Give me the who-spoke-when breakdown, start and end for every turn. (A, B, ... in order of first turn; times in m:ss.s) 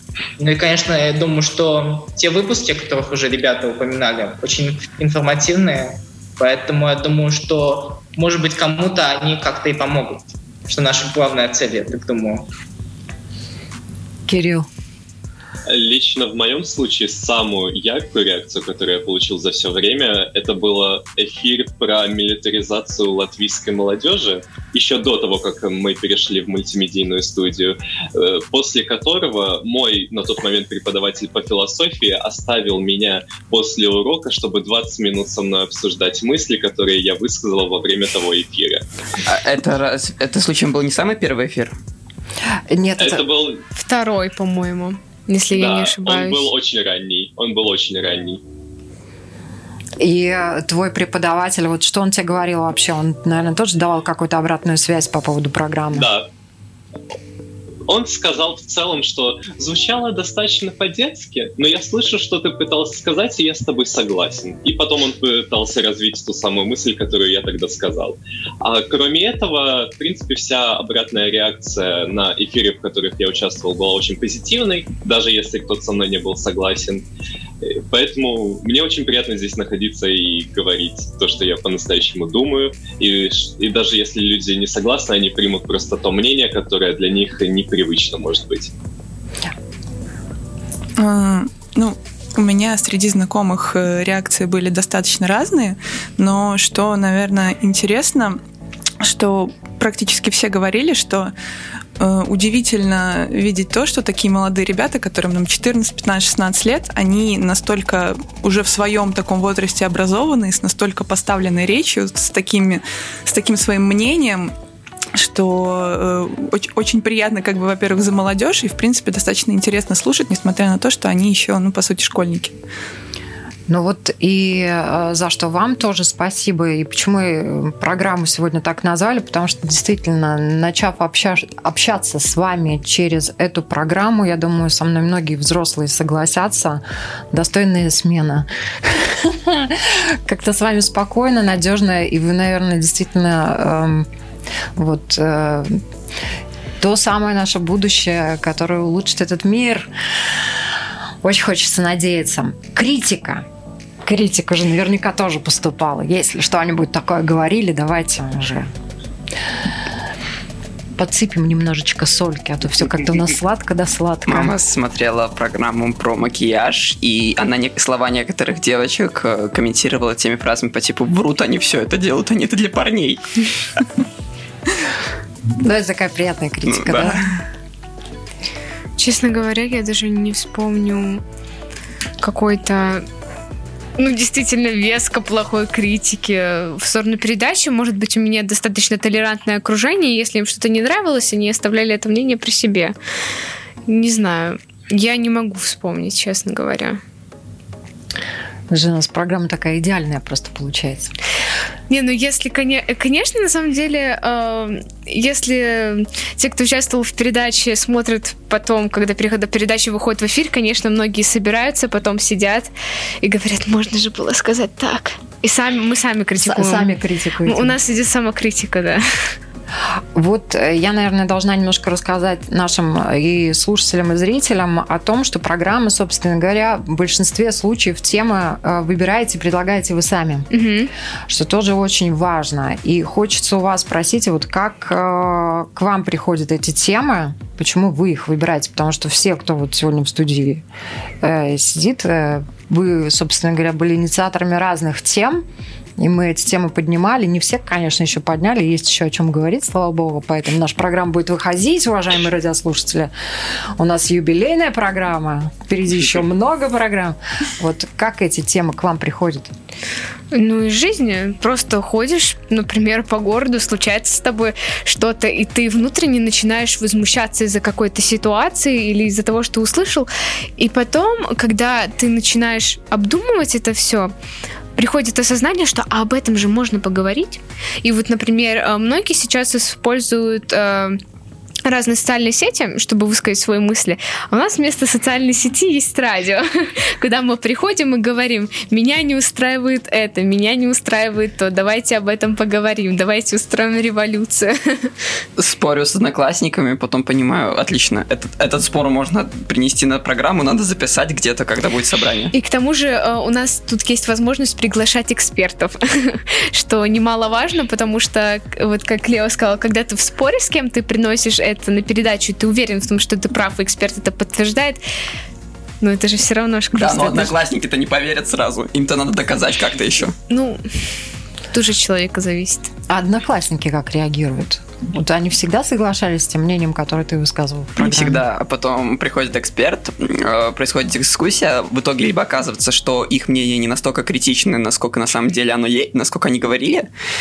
0:00.4-0:12.5 A
0:14.3-0:14.7 B
0:15.7-0:38.8 C
0:39.3-0:41.7 D
0:42.7-0:43.2 B
0:43.0-0:43.6 C
0:43.7-0:46.4 E
0:45.5-0:48.4 C
0:50.0-0:56.1 B
0:55.9-0:56.3 C
0:57.9-1:17.0 C
1:17.6-1:28.7 C
1:31.0-1:38.4 F
1:39.0-1:41.3 F
1:42.0-1:54.5 F
1:55.1-2:02.6 F
2:03.7-2:24.1 B
2:24.8-2:25.8 B
2:26.8-2:29.9 B
2:31.2-2:33.4 B
2:34.0-2:38.7 B
2:41.0-2:44.5 B
2:44.2-2:53.2 D
2:55.6-2:57.2 B
2:56.6-2:57.2 D
2:59.0-3:01.2 E
3:02.2-3:03.0 E
3:04.0-3:12.9 E
3:13.9-3:17.0 E
3:18.7-3:21.1 B
3:21.9-3:32.7 E
3:33.2-3:36.9 E
3:36.4-3:37.8 B
3:37.4-3:39.0 E
3:40.1-3:50.5 B
3:50.5-3:50.9 E
3:51.3-4:00.6 B
4:01.2-4:05.4 B
4:06.0-4:13.1 B
4:13.8-4:19.5 B
4:20.3-4:34.1 E
4:34.8-4:41.0 E
4:41.6-4:54.9 E
4:55.4-5:02.3 D
5:02.3-5:14.8 E
5:15.8-5:17.3 E
5:16.7-5:20.1 D
5:20.3-5:20.6 E
5:21.5-5:22.7 E
5:22.9-5:28.2 B
5:27.8-5:36.9 D